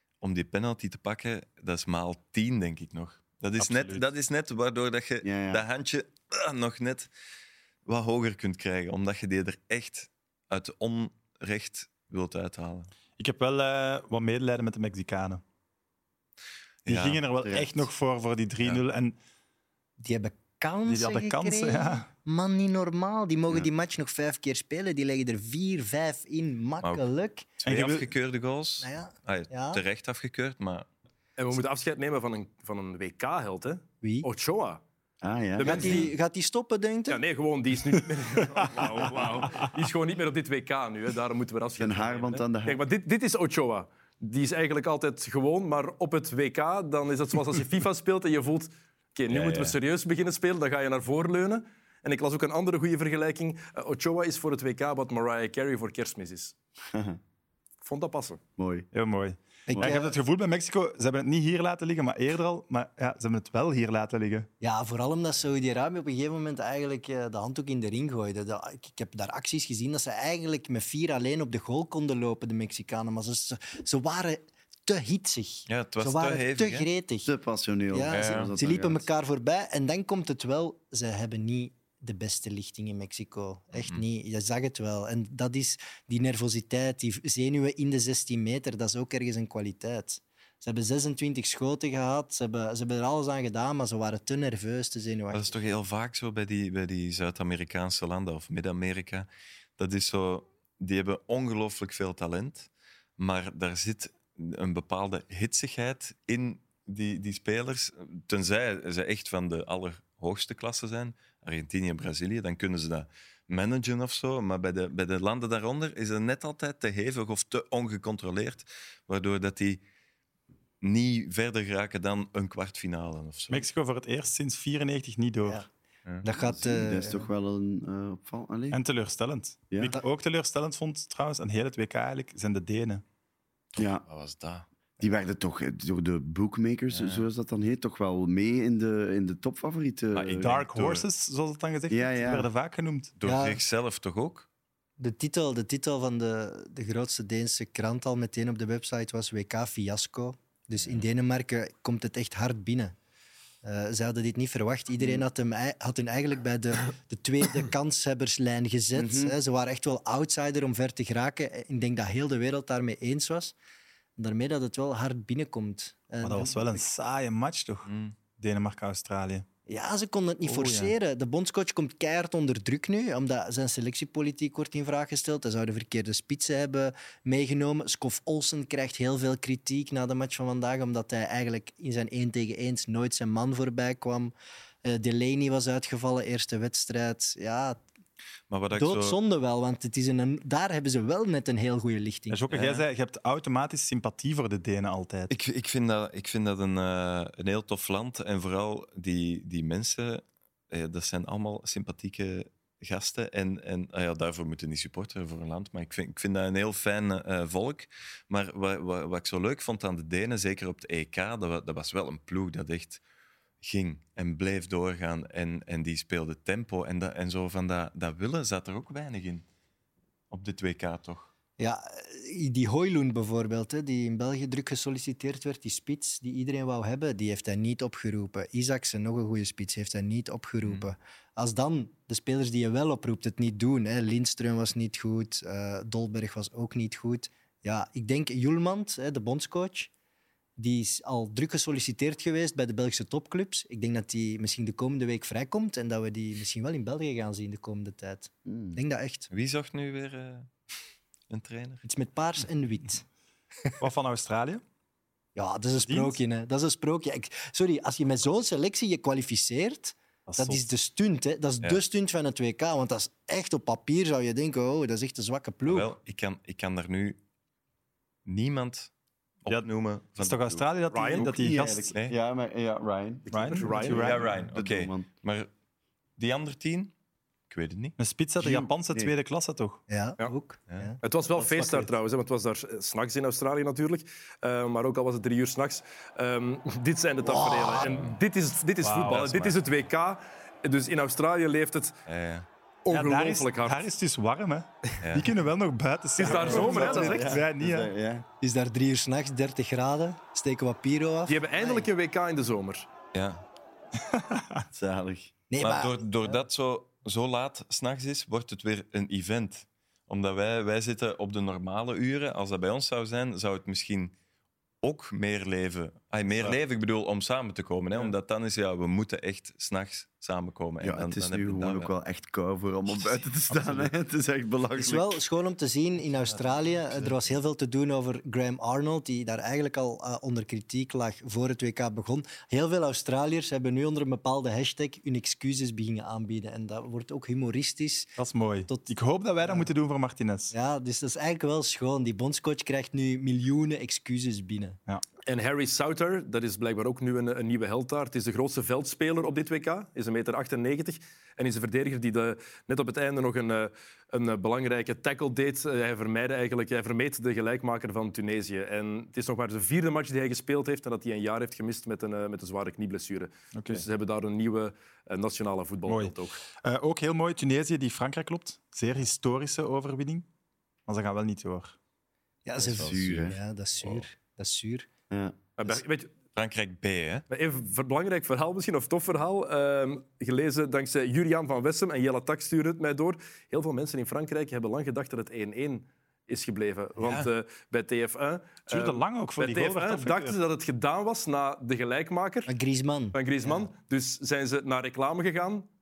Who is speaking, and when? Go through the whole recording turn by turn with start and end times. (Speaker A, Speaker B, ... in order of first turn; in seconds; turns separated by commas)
Speaker A: 0.2-7.1, Speaker B: 3.6-4.1, Speaker C: 5.2-5.6, Speaker A: 7.8-12.9, Speaker B: 13.2-15.4, Speaker A: 16.8-17.2, Speaker B: 16.9-19.1, Speaker C: 17.4-17.8, Speaker D: 20.0-27.5, Speaker B: 20.9-22.1, Speaker A: 27.6-30.9, Speaker B: 27.6-28.1, Speaker D: 28.8-29.8, Speaker E: 31.4-34.8, Speaker C: 35.2-36.1, Speaker E: 35.6-36.1, Speaker D: 35.6-37.2, Speaker E: 37.1-56.5, Speaker C: 41.8-42.8, Speaker A: 49.3-49.7, Speaker C: 56.9-57.2, Speaker E: 57.8-58.4, Speaker C: 58.6-58.9, Speaker B: 58.9-64.5, Speaker D: 59.7-60.1, Speaker D: 64.6-77.3, Speaker A: 75.7-76.9, Speaker C: 77.2-79.1, Speaker D: 77.9-95.5, Speaker A: 78.1-78.5, Speaker A: 83.7-84.0, Speaker A: 95.3-119.8, Speaker A: 120.8-123.7, Speaker B: 123.5-125.6, Speaker D: 126.2-127.3, Speaker C: 126.3-128.8, Speaker B: 128.7-133.0, Speaker C: 129.7-129.9, Speaker C: 133.8-134.0, Speaker A: 134.0-134.7, Speaker C: 135.0-140.5, Speaker A: 136.9-137.2, Speaker A: 140.1-141.0, Speaker B: 140.4-143.1, Speaker C: 141.9-142.5, Speaker A: 143.2-144.5, Speaker D: 143.2-143.6, Speaker D: 145.0-152.9, Speaker D: 153.6-163.5, Speaker C: 155.0-155.2, Speaker C: 158.9-159.3, Speaker D: 164.2-166.8, Speaker B: 166.2-169.4, Speaker A: 167.8-168.1, Speaker D: 169.7-184.3, Speaker B: 170.4-170.9, Speaker D: 184.8-187.8, Speaker A: 188.5-189.2, Speaker D: 188.7-192.4, Speaker B: 192.3-195.3, Speaker A: 192.5-192.8, Speaker A: 195.3-213.0, Speaker A: 213.6-219.4, Speaker A: 220.3-221.3, Speaker D: 221.6-239.9, Speaker A: 230.6-230.9, Speaker D: 240.6-249.3, Speaker C: 248.4-248.8, Speaker A: 249.3-250.5, Speaker A: 251.3-251.8, Speaker D: 251.8-253.0, Speaker B: 253.8-254.6, Speaker D: 255.3-265.9, Speaker B: 255.8-256.2, Speaker B: 260.3-260.7, Speaker A: 265.6-267.2, Speaker A: 268.2-268.9, Speaker A: 269.4-270.6, Speaker B: 269.5-271.9, Speaker E: 270.9-271.2, Speaker C: 271.2-275.1, Speaker B: 273.3-274.2, Speaker E: 273.4-274.1, Speaker A: 273.9-275.5, Speaker A: 276.2-276.9, Speaker A: 277.5-277.9, Speaker B: 278.0-279.8, Speaker C: 278.4-279.1, Speaker D: 279.9-281.0, Speaker E: 281.0-292.0, Speaker B: 281.3-281.9, Speaker D: 287.3-287.9, Speaker A: 287.9-288.1, Speaker B: 288.8-289.2, Speaker A: 288.9-289.6, Speaker A: 292.1-292.4, Speaker E: 292.8-293.9, Speaker B: 292.9-297.9, Speaker A: 295.0-295.3, Speaker E: 296.2-297.3, Speaker C: 296.2-298.2, Speaker D: 298.4-301.9, Speaker E: 301.3-302.9, Speaker A: 303.1-303.4, Speaker B: 304.1-304.6, Speaker C: 304.7-305.3, Speaker D: 305.5-306.4, Speaker A: 305.6-314.1, Speaker A: 314.8-321.9, Speaker C: 320.8-325.2, Speaker D: 324.7-338.9, Speaker B: 338.2-340.5, Speaker D: 339.4-339.7, Speaker D: 340.5-344.8, Speaker E: 345.3-366.4, Speaker B: 363.5-363.8, Speaker B: 365.9-370.2, Speaker B: 370.9-371.8, Speaker D: 372.4-374.9, Speaker C: 372.6-373.4, Speaker C: 375.1-375.4, Speaker E: 375.6-376.1, Speaker A: 376.3-377.2, Speaker E: 377.3-392.5, Speaker A: 387.0-387.3, Speaker B: 388.7-390.4, Speaker D: 392.5-393.7, Speaker E: 393.1-395.7